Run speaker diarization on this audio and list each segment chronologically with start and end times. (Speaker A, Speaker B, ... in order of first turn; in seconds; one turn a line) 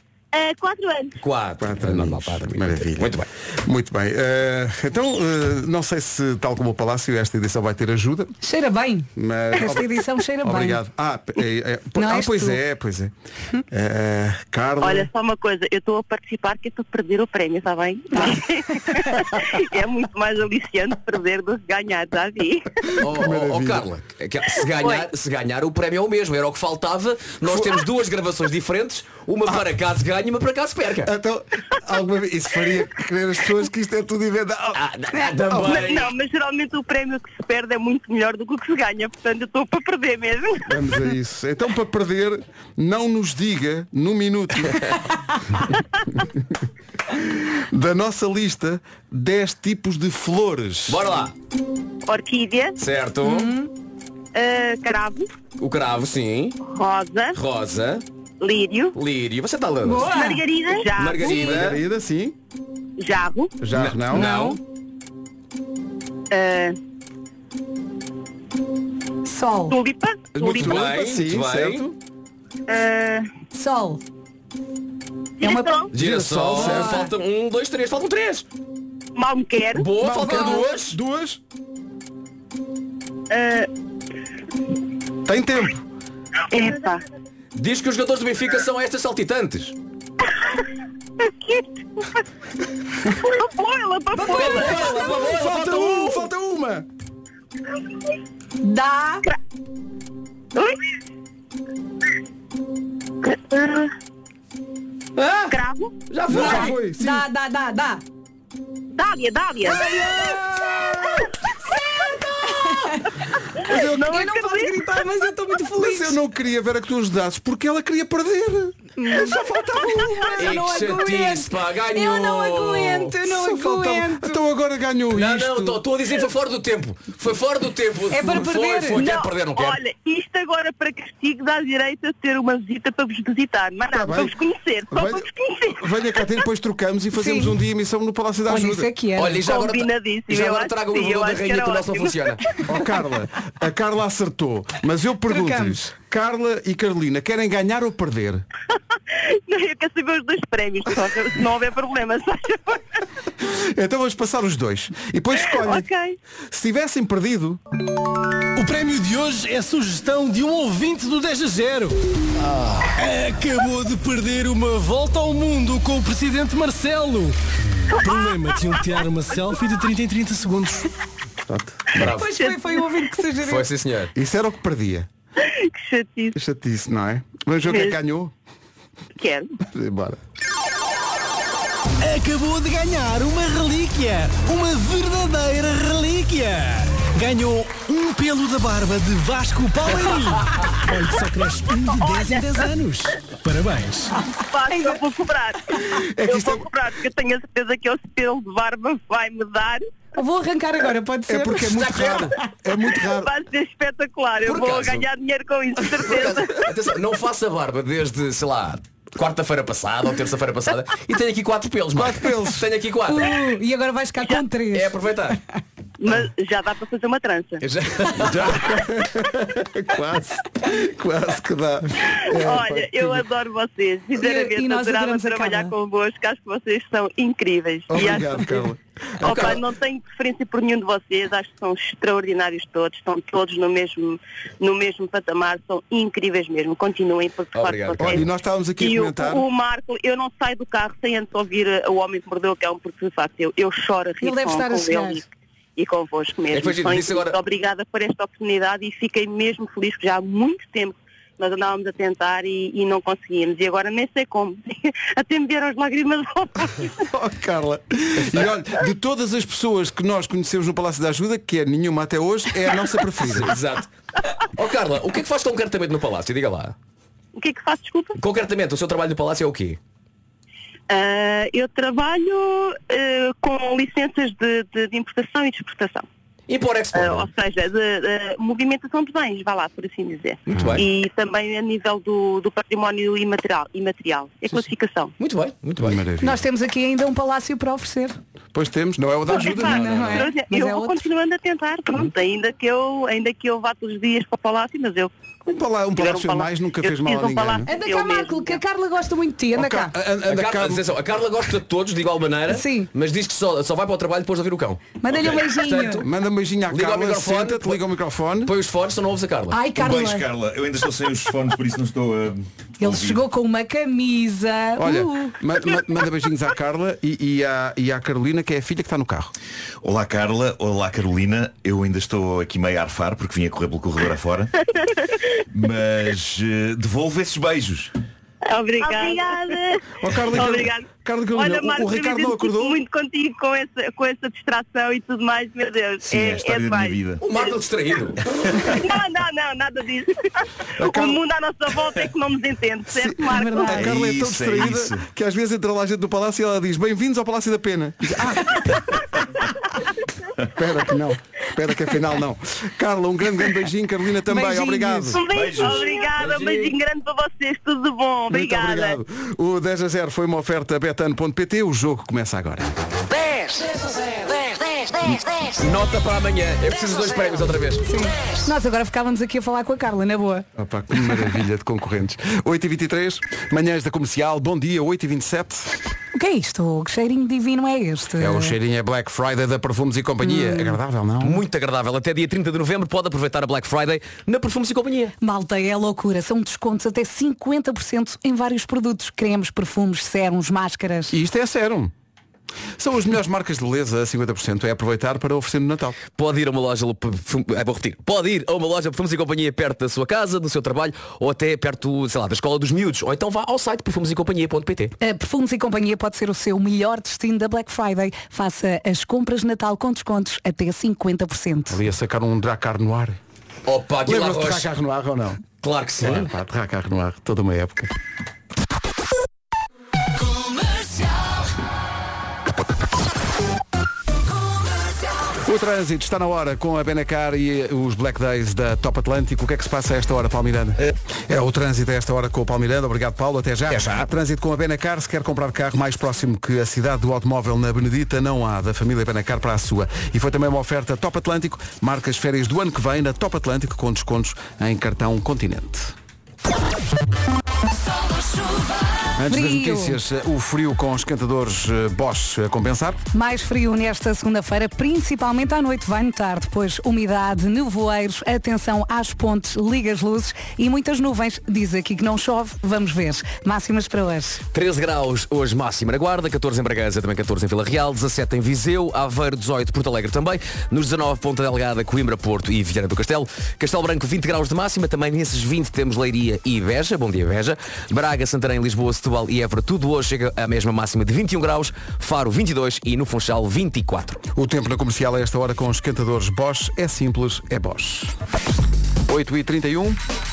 Speaker A: 0.3-1.1
Speaker B: 1.2-3.3
Speaker C: 1.6-8.3
Speaker D: 8.4-10.8
Speaker C: 9.2-13.1
Speaker D: 12.0-12.6
Speaker C: 13.7-15.1
Speaker A: 14.8-22.9
Speaker C: 22.9-23.9
Speaker B: 23.0-31.1
Speaker A: 24.7-25.1
Speaker C: 31.0-34.8
Speaker B: 34.7-36.1
Speaker C: 35.5-35.9
Speaker A: 35.7-40.7
Speaker C: 40.6-44.9
Speaker C: 46.1-46.4
Speaker C: 47.1-51.0
Speaker B: 50.9-51.3
Speaker A: 52.0-52.8
Speaker B: 52.8-53.5
Speaker D: 53.2-53.7
Speaker A: 54.3-55.3
Speaker B: 55.6-56.6
Speaker A: 56.6-57.4
Speaker B: 57.3-58.0
Speaker A: 58.4-59.0
Speaker B: 58.9-60.2
Speaker D: 59.8-60.5
Speaker A: 60.1-61.8
Speaker B: 60.9-61.8
Speaker C: 61.2-62.3
Speaker A: 63.0-63.5
Speaker C: 63.6-64.3
Speaker B: 63.7-64.6
Speaker D: 64.1-64.5
Speaker A: 66.3-66.8
Speaker D: 69.2-69.8
Speaker A: 69.7-70.9
Speaker B: 70.3-71.9
Speaker C: 70.6-71.9
Speaker A: 72.7-73.3
Speaker D: 73.5-74.0
Speaker D: 75.4-75.8
Speaker A: 75.4-75.9
Speaker B: 75.9-78.5
Speaker C: 75.9-77.0
Speaker D: 76.5-77.1
Speaker A: 79.1-79.9
Speaker B: 79.7-81.0
Speaker C: 80.0-81.4
Speaker A: 83.3-83.7
Speaker C: 85.2-85.8
Speaker A: 86.5-87.0
Speaker B: 87.5-89.8
Speaker A: 90.3-90.6
Speaker A: 91.2-92.1
Speaker A: 93.1-95.1
Speaker B: 94.2-96.2
Speaker C: 94.3-96.9
Speaker D: 98.6-99.2
Speaker A: 100.5-100.8
Speaker A: 103.2-103.9
Speaker B: 105.2-106.8
Speaker A: 105.5-105.9
Speaker C: 106.3-107.2
Speaker D: 106.3-108.0
Speaker A: 108.9-110.1
Speaker C: 109.6-111.3
Speaker D: 112.5-113.1
Speaker C: 113.6-114.1
Speaker A: 113.6-115.0
Speaker D: 114.1-116.2
Speaker C: 115.8-120.3
Speaker D: 119.0-124.4
Speaker B: 120.4-123.2
Speaker C: 123.2-125.8
Speaker B: 125.1-129.8
Speaker D: 128.1-129.0
Speaker A: 129.0-136.2
Speaker C: 133.9-134.3
Speaker C: 134.9-138.9
Speaker D: 137.2-137.5
Speaker D: 138.5-139.4
Speaker B: 139.2-142.4
Speaker A: 139.4-142.3
Speaker C: 142.7-148.4
Speaker D: 145.3-145.8
Speaker A: 149.1-153.0
Speaker C: 153.4-155.9
Speaker A: 155.4-156.2
Speaker C: 156.5-157.6
Speaker E: 158.5-162.0
Speaker E: 162.9-167.3
Speaker E: 167.9-170.9
Speaker C: 171.5-172.0
Speaker B: 171.9-172.4
Speaker D: 172.0-173.7
Speaker A: 172.4-172.8
Speaker B: 173.4-174.1
Speaker C: 174.1-175.1
Speaker A: 175.4-176.3
Speaker C: 176.3-178.3
Speaker A: 177.7-178.0
Speaker A: 179.2-179.6
Speaker C: 179.6-180.2
Speaker E: 182.0-194.1
Speaker A: 192.0-192.6
Speaker A: 194.4-199.9
Speaker D: 194.7-195.0
Speaker C: 195.8-196.7
Speaker D: 200.2-201.9
Speaker C: 201.3-203.3
Speaker B: 201.7-202.3
Speaker A: 202.9-206.6
Speaker B: 204.4-205.1
Speaker B: 205.9-213.4
Speaker C: 211.9-212.7
Speaker D: 213.1-215.3
Speaker B: 214.7-215.4
Speaker A: 216.0-217.6
Speaker B: 217.6-218.8
Speaker C: 218.1-223.2
Speaker A: 222.1-228.6
Speaker D: 224.2-225.7
Speaker C: 227.9-229.6
Speaker A: 229.2-245.2
Speaker B: 237.5-238.2
Speaker C: 238.0-239.4
Speaker D: 244.2-245.2
Speaker A: 245.8-257.0
Speaker B: 246.5-247.4
Speaker C: 257.0-263.5
Speaker B: 263.2-263.9
Speaker B: 264.4-266.8
Speaker A: 267.3-268.2
Speaker B: 268.1-269.8
Speaker A: 270.9-276.0
Speaker B: 276.5-277.3
Speaker A: 276.9-285.1
Speaker B: 280.5-280.9
Speaker B: 285.2-286.0
Speaker C: 285.8-286.4
Speaker D: 286.2-288.1
Speaker C: 288.5-290.3
Speaker A: 289.3-295.1
Speaker D: 289.3-291.0
Speaker C: 295.4-297.7
Speaker A: 295.9-298.6
Speaker D: 297.7-299.9
Speaker C: 299.5-300.9
Speaker B: 300.2-306.1
Speaker D: 302.5-302.9
Speaker D: 305.0-306.0
Speaker C: 306.0-308.5
Speaker B: 306.7-307.8
Speaker B: 308.4-309.6
Speaker D: 309.5-310.2
Speaker F: 309.7-313.2
Speaker D: 312.8-315.4
Speaker C: 314.8-319.3
Speaker F: 319.8-324.5
Speaker A: 324.9-325.2
Speaker F: 325.5-327.9
Speaker A: 328.5-337.5
Speaker C: 330.0-332.8
Speaker F: 336.1-337.2
Speaker B: 337.2-338.2
Speaker A: 338.5-343.8
Speaker C: 340.8-341.2
Speaker C: 342.9-349.0
Speaker D: 343.3-343.8
Speaker F: 343.7-345.0
Speaker C: 350.5-355.2
Speaker D: 354.3-355.2
Speaker A: 355.1-359.0
Speaker F: 355.2-356.0
Speaker B: 356.1-356.7
Speaker C: 358.3-362.8
Speaker G: 363.1-365.6
Speaker B: 365.6-367.9
Speaker D: 367.9-370.5
Speaker C: 370.6-375.8
Speaker D: 376.1-378.5
Speaker C: 378.2-381.4
Speaker D: 380.2-380.8
Speaker B: 381.2-385.1
Speaker D: 385.2-391.1
Speaker C: 391.1-391.9
Speaker C: 392.8-396.0
Speaker B: 396.1-404.9
Speaker D: 405.0-411.8
Speaker C: 411.7-413.2
Speaker B: 413.6-414.7
Speaker C: 414.0-415.4
Speaker B: 415.6-416.3
Speaker C: 416.0-417.9
Speaker C: 425.4-445.9
Speaker C: 449.2-453.0
Speaker D: 449.3-450.0
Speaker D: 453.1-464.4
Speaker B: 464.5-484.2
Speaker C: 484.3-488.1
Speaker C: 489.1-490.0